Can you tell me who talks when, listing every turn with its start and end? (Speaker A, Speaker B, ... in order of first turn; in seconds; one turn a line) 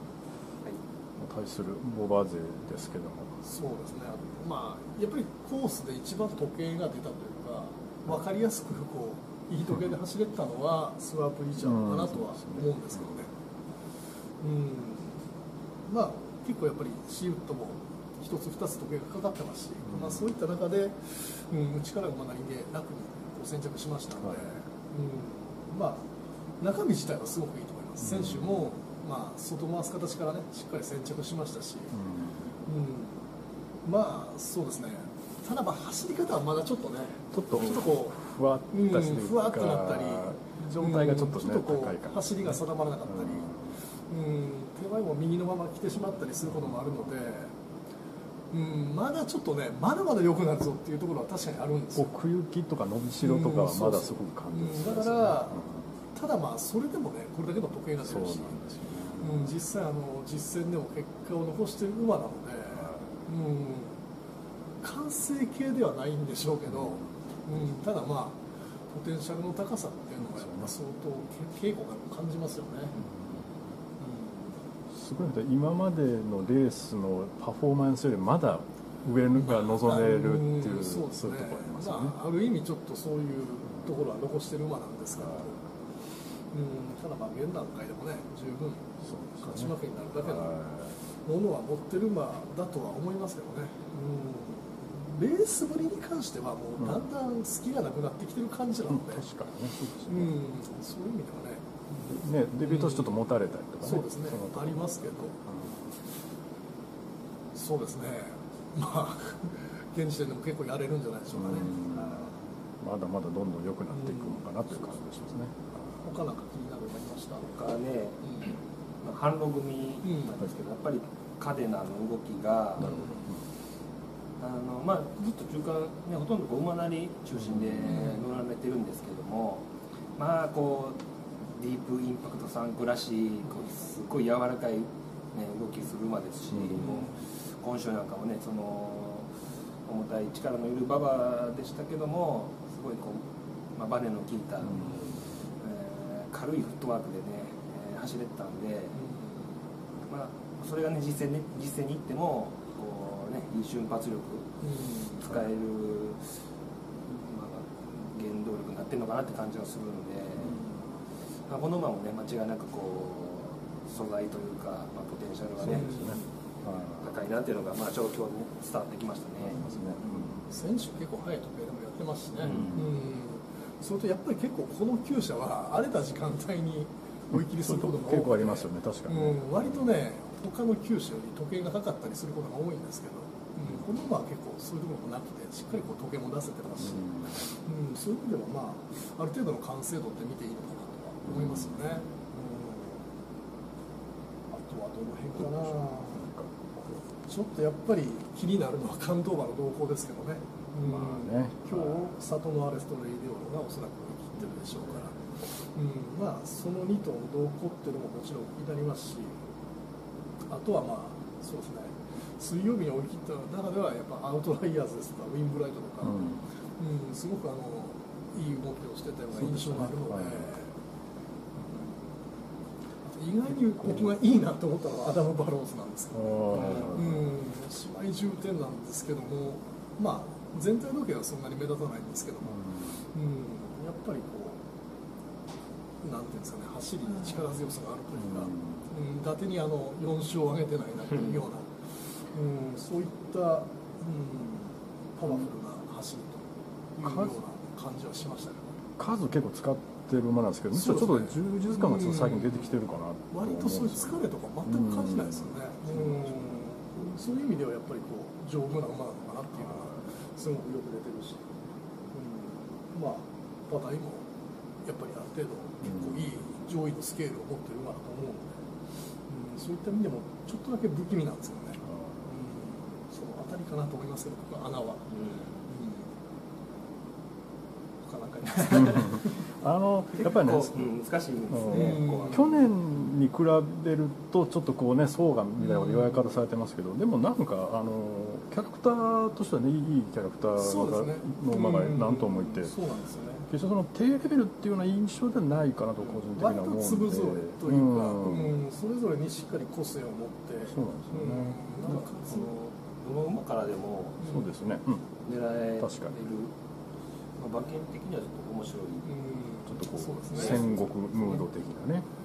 Speaker A: 1.2-3.4
Speaker B: 3.5-13.3
Speaker A: 11.6-13.1
Speaker B: 14.4-15.2
Speaker B: 15.9-26.1
Speaker A: 19.8-20.4
Speaker A: 24.2-24.5
Speaker B: 26.6-31.9
Speaker A: 28.0-28.7
Speaker A: 31.9-32.7
Speaker B: 32.7-33.1
Speaker B: 33.9-38.2
Speaker A: 37.3-43.8
Speaker B: 38.7-43.5
Speaker B: 44.1-47.5
Speaker A: 46.5-46.8
Speaker B: 48.5-52.1
Speaker A: 52.0-55.9
Speaker B: 53.2-55.6
Speaker B: 56.1-58.6
Speaker A: 58.0-59.5
Speaker B: 59.1-63.9
Speaker A: 62.8-63.2
Speaker B: 64.8-68.4
Speaker A: 66.7-67.1
Speaker B: 68.9-73.0
Speaker A: 70.2-70.7
Speaker B: 74.0-74.4
Speaker A: 74.9-82.2
Speaker B: 79.3-85.6
Speaker B: 86.5-88.8
Speaker A: 89.0-91.0
Speaker B: 89.4-99.2
Speaker A: 96.8-97.0
Speaker A: 98.9-100.3
Speaker B: 100.0-103.2
Speaker A: 102.0-106.0
Speaker B: 103.8-105.4
Speaker B: 107.6-112.3
Speaker A: 111.4-116.0
Speaker B: 113.9-114.4
Speaker B: 116.0-117.5
Speaker C: 117.4-123.0
Speaker B: 118.2-118.5
Speaker B: 120.0-120.3
Speaker A: 122.8-123.5
Speaker B: 122.8-123.3
Speaker C: 124.4-129.7
Speaker A: 127.4-128.0
Speaker B: 127.9-128.2
Speaker C: 130.2-139.3
Speaker A: 136.5-137.0
Speaker B: 136.8-137.1
Speaker C: 139.9-143.2
Speaker C: 143.8-149.0
Speaker A: 144.6-145.2
Speaker B: 148.9-149.4
Speaker C: 150.1-154.5
Speaker B: 154.6-155.3
Speaker C: 155.2-156.4
Speaker C: 157.1-160.7
Speaker C: 161.5-166.2
Speaker A: 165.6-167.2
Speaker B: 165.8-166.2
Speaker C: 167.0-170.4
Speaker A: 169.4-170.4
Speaker B: 170.4-193.0
Speaker C: 172.4-172.8
Speaker A: 172.4-172.9
Speaker A: 177.3-179.9
Speaker A: 186.8-187.5
Speaker A: 191.2-192.0
Speaker B: 194.5-196.2
Speaker A: 195.3-197.0
Speaker B: 197.2-209.3
Speaker A: 200.8-202.1
Speaker C: 204.4-204.6
Speaker B: 210.5-220.7
Speaker A: 216.0-216.4
Speaker A: 219.3-220.5
Speaker B: 223.1-234.6
Speaker A: 226.1-227.4
Speaker A: 232.5-232.9
Speaker B: 236.0-246.4
Speaker A: 238.1-238.9
Speaker B: 247.0-248.7
Speaker A: 247.0-247.4
Speaker A: 249.0-256.6
Speaker B: 250.7-261.5
Speaker A: 259.7-260.0
Speaker B: 262.1-264.2
Speaker B: 264.9-268.5
Speaker A: 265.8-266.3
Speaker B: 269.3-275.1
Speaker A: 271.8-272.3
Speaker C: 275.1-275.7
Speaker B: 275.7-276.1
Speaker B: 278.1-279.4
Speaker C: 278.4-279.1
Speaker A: 278.7-280.9
Speaker C: 280.1-282.5
Speaker A: 281.5-292.8
Speaker B: 281.7-282.6
Speaker B: 285.6-286.4
Speaker B: 290.6-293.5
Speaker A: 293.4-298.6
Speaker B: 296.1-302.5
Speaker A: 300.6-301.7
Speaker C: 301.8-304.3
Speaker B: 304.2-304.5
Speaker A: 304.2-305.1
Speaker C: 305.2-306.5
Speaker A: 305.8-306.1
Speaker C: 307.4-309.2
Speaker B: 309.1-311.4
Speaker A: 309.7-312.1
Speaker C: 310.3-310.6